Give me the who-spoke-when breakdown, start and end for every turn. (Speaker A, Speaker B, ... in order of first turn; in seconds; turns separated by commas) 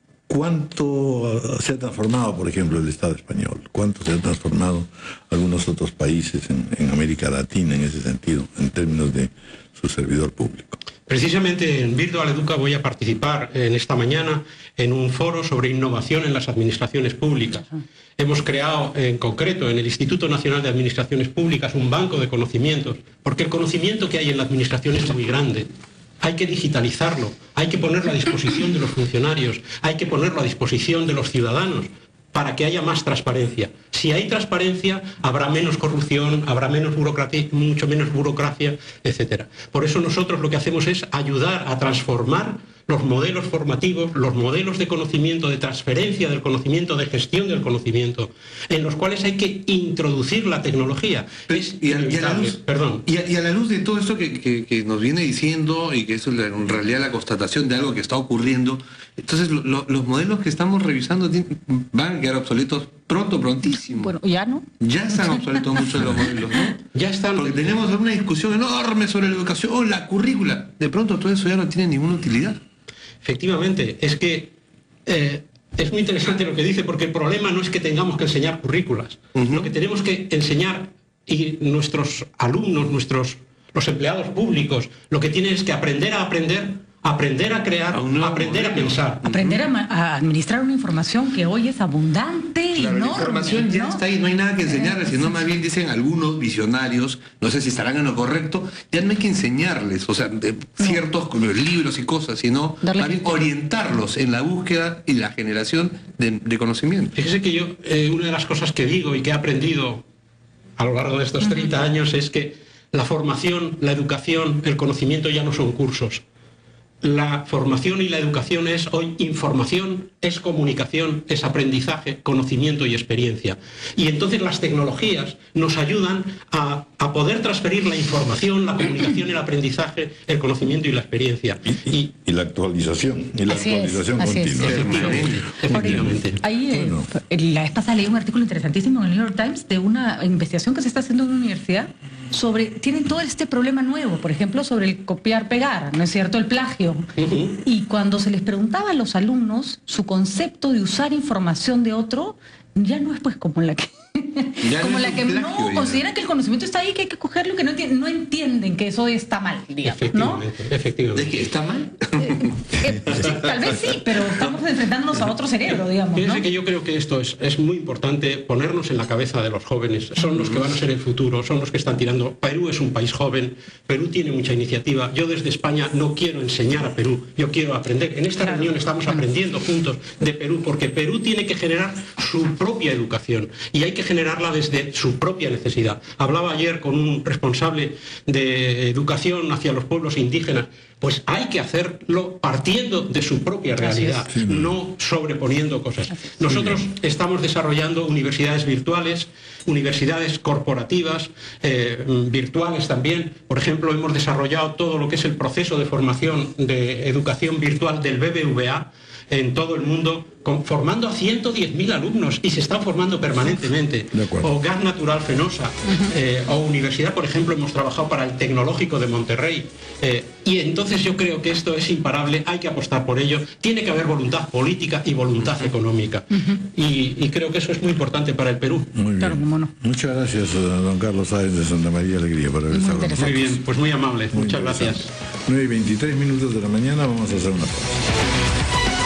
Speaker A: 0.3-10.8, Speaker B: 11.1-25.7, Speaker B: 26.2-53.0, Speaker C: 51.5-64.1, Speaker D: 63.6-64.7, Speaker C: 64.8-66.8, Speaker B: 66.9-67.6, Speaker C: 67.3-72.6, Speaker B: 73.2-74.5, Speaker B: 75.0-89.2, Speaker C: 79.3-79.7, Speaker C: 87.9-89.6, Speaker D: 89.3-94.0, Speaker C: 92.7-107.1, Speaker D: 94.6-95.1, Speaker D: 102.8-103.2, Speaker B: 107.1-110.0, Speaker B: 110.8-116.2, Speaker B: 117.0-132.1, Speaker A: 131.7-136.2, Speaker D: 133.5-135.2, Speaker C: 134.6-136.1, Speaker B: 134.7-136.4, Speaker D: 135.7-147.1, Speaker A: 136.7-137.1, Speaker B: 147.2-147.6, Speaker D: 147.6-160.4, Speaker C: 154.6-156.0, Speaker B: 159.8-161.4, Speaker C: 161.1-162.5, Speaker D: 162.2-166.4, Speaker C: 163.1-163.4, Speaker B: 166.1-228.9, Speaker D: 193.8-194.2, Speaker A: 194.3-194.8, Speaker A: 196.5-196.8, Speaker A: 214.1-214.5, Speaker A: 228.9-233.6, Speaker D: 229.2-229.7, Speaker D: 232.7-233.5, Speaker B: 233.2-235.1, Speaker A: 234.3-238.0